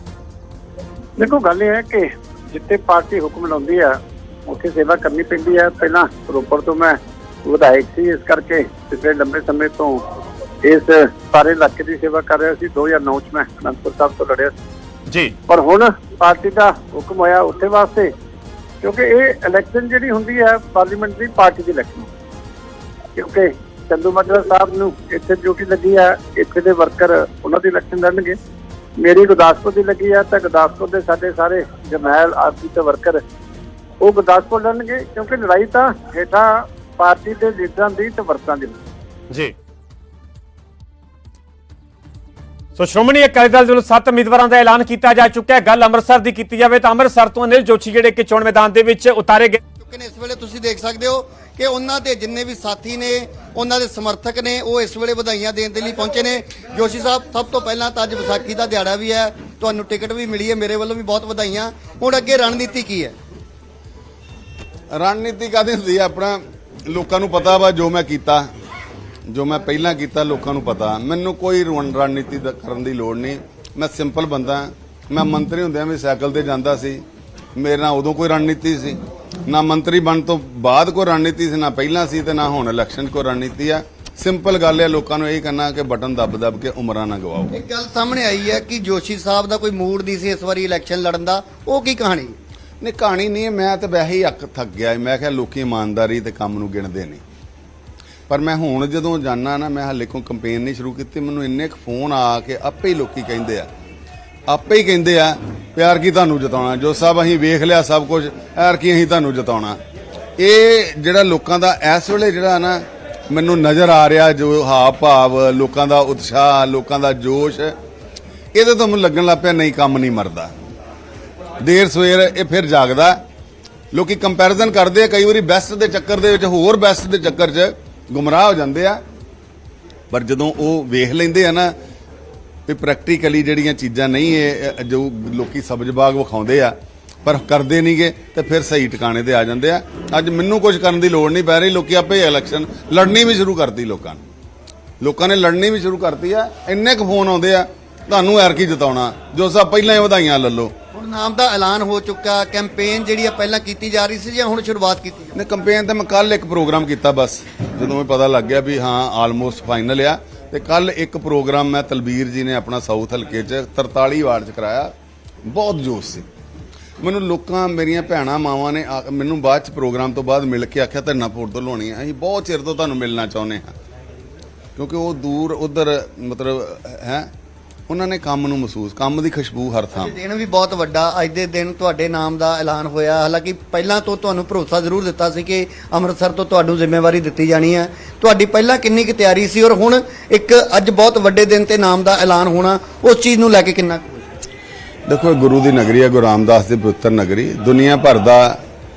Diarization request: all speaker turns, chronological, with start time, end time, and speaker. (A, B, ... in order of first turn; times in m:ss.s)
0:01.2-0:03.9 A
0:04.5-0:10.0 A
0:10.6-0:14.5 A
0:15.1-0:15.3 B
0:15.5-0:18.1 A
0:18.8-0:22.1 A
0:23.2-0:28.4 A
0:29.0-0:33.2 A
0:34.0-0:38.8 A
0:42.8-0:49.6 B
0:49.8-1:03.1 C
1:04.9-1:08.5 D
1:09.3-1:17.0 D
1:17.6-1:27.6 D
1:27.5-1:32.4 C
1:32.8-1:37.2 D
1:38.3-1:43.7 D
1:44.5-1:49.8 D
1:50.4-1:57.7 D
1:58.5-2:00.5 D
2:01.6-2:03.2 D
2:03.9-2:09.0 D
2:10.1-2:11.7 D
2:12.7-2:16.7 D
2:17.2-2:24.2 D
2:25.0-2:30.7 D
2:30.9-2:35.3 C
2:35.3-2:44.9 D
2:45.5-2:46.2 D
2:47.0-2:53.7 D
2:54.8-2:57.3 D
2:57.9-3:00.1 D
3:00.0-3:14.2 C
3:15.1-3:18.6 D